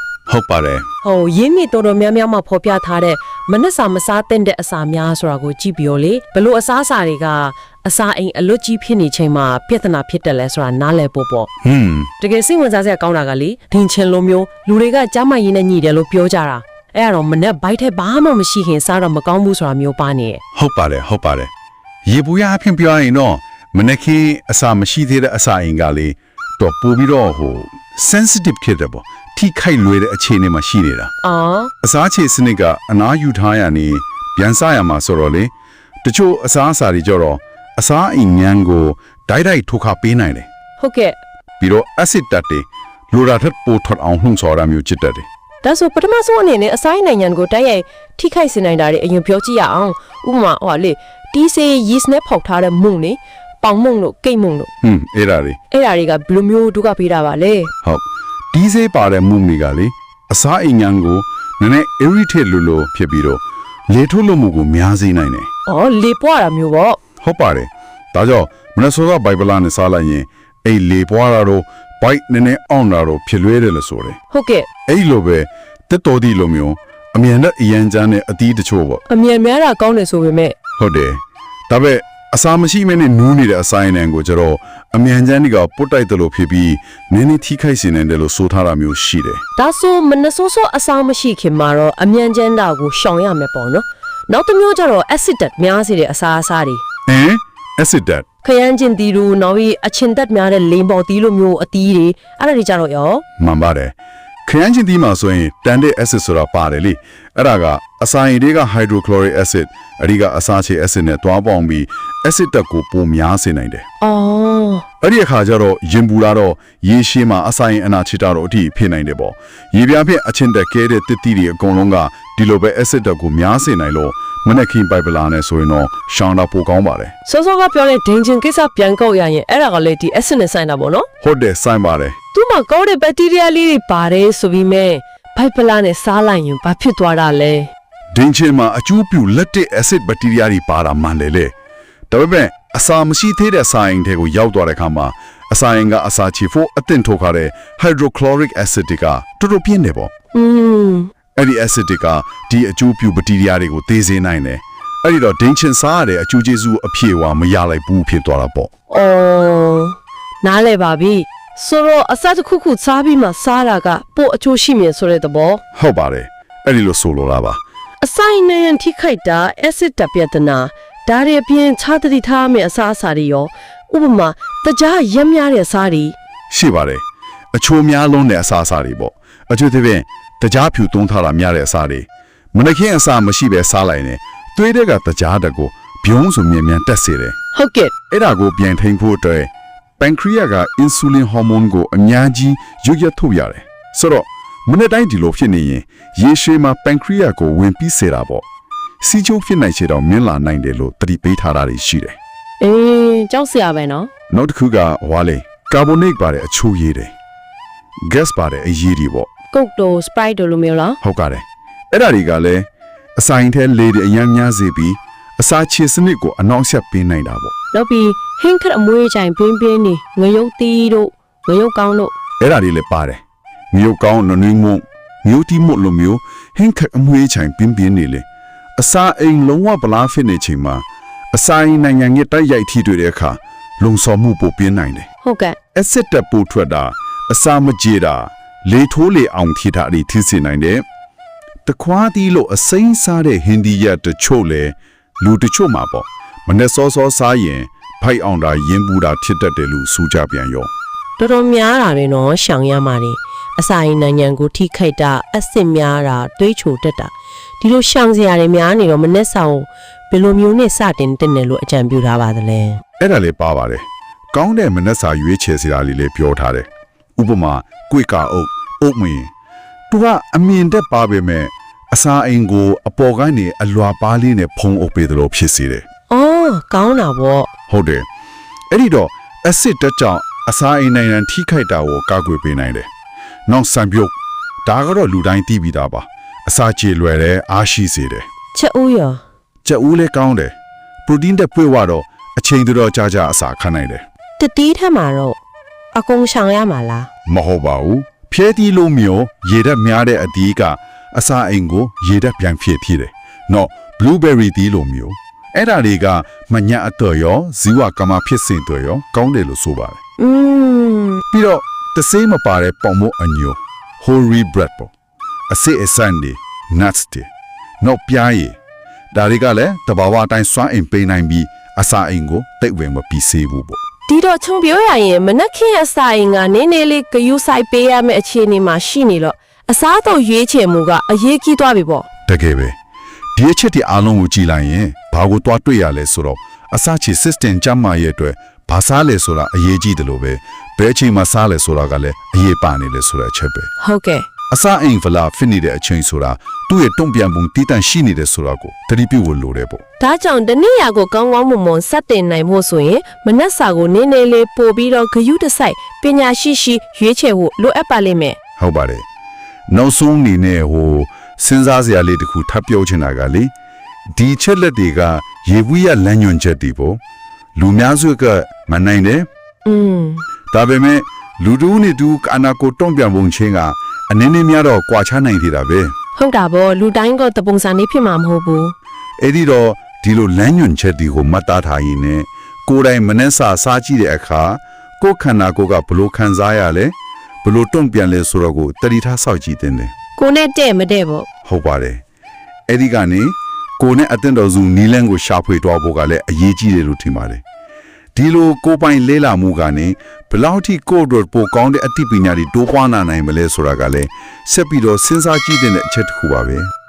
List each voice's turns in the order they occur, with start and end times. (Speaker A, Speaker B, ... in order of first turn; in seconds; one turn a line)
Speaker A: 0.3-0.9
Speaker B: 1.0-11.5
Speaker A: 11.6-12.1
Speaker B: 12.2-20.4
Speaker A: 20.5-21.5
Speaker A: 22.1-31.1
Speaker B: 31.2-31.7
Speaker A: 31.8-35.5
Speaker A: 36.0-40.5
Speaker B: 40.8-41.2
Speaker A: 41.6-45.2
Speaker B: 45.6-54.7
Speaker A: 54.8-55.6
Speaker B: 55.7-57.7
Speaker A: 57.8-65.5
Speaker B: 65.7-67.0
Speaker A: 67.2-74.2
Speaker B: 74.3-74.7
Speaker A: 74.9-79.0
Speaker B: 79.1-80.5
Speaker A: 80.8-89.4
Speaker B: 89.6-96.8
Speaker A: 97.1-98.2
Speaker B: 98.4-103.2
Speaker A: 103.4-113.8
Speaker B: 114.0-114.8
Speaker A: 115.0-127.1
Speaker B: 127.2-131.1
Speaker A: 131.2-132.2
Speaker B: 132.3-137.7
Speaker A: 138.1-141.5
Speaker A: 142.1-150.1
Speaker B: 150.3-151.1
Speaker A: 151.4-158.7
Speaker B: 158.9-165.6
Speaker A: 165.7-167.6
Speaker B: 168.0-176.2
Speaker A: 176.5-177.0
Speaker A: 177.5-187.3
Speaker B: 187.5-187.9
Speaker A: 188.1-198.4
Speaker A: 199.0-202.2
Speaker B: 202.6-204.1
Speaker A: 204.3-207.1
Speaker A: 208.1-209.3
Speaker B: 209.5-211.0
Speaker A: 211.0-212.7
Speaker A: 213.2-217.5
Speaker B: 217.7-222.1
Speaker A: 222.4-228.2
Speaker A: 228.8-235.1
Speaker B: 235.2-235.6
Speaker A: 235.7-240.8
Speaker A: 241.7-250.7
Speaker B: 251.2-262.8
Speaker A: 263.0-269.3
Speaker A: 269.9-275.8
Speaker B: 276.1-277.5
Speaker A: 277.7-278.0
Speaker A: 278.7-282.9
Speaker A: 283.5-284.1
Speaker A: 284.6-288.3
Speaker B: 288.5-289.2
Speaker A: 289.6-290.5
Speaker A: 291.1-294.0
Speaker B: 294.4-295.4
Speaker B: 295.9-297.1
Speaker A: 297.3-310.0
Speaker B: 310.2-311.2
Speaker A: 311.3-314.9
Speaker A: 315.5-317.3
Speaker A: 317.8-318.6
Speaker A: 319.1-323.8
Speaker B: 324.1-332.1
Speaker A: 332.3-332.7
Speaker A: 333.4-343.7
Speaker B: 343.8-344.2
Speaker A: 344.5-349.8
Speaker B: 350.0-358.4
Speaker A: 358.6-359.1
Speaker A: 359.7-363.5
Speaker A: 364.1-367.0
Speaker A: 367.6-369.3
Speaker B: 369.6-370.2
Speaker A: 370.5-375.9
Speaker B: 376.2-378.7
Speaker A: 379.2-389.9
Speaker B: 390.2-391.3
Speaker A: 391.4-392.0
Speaker A: 392.7-397.4
Speaker A: 398.1-406.7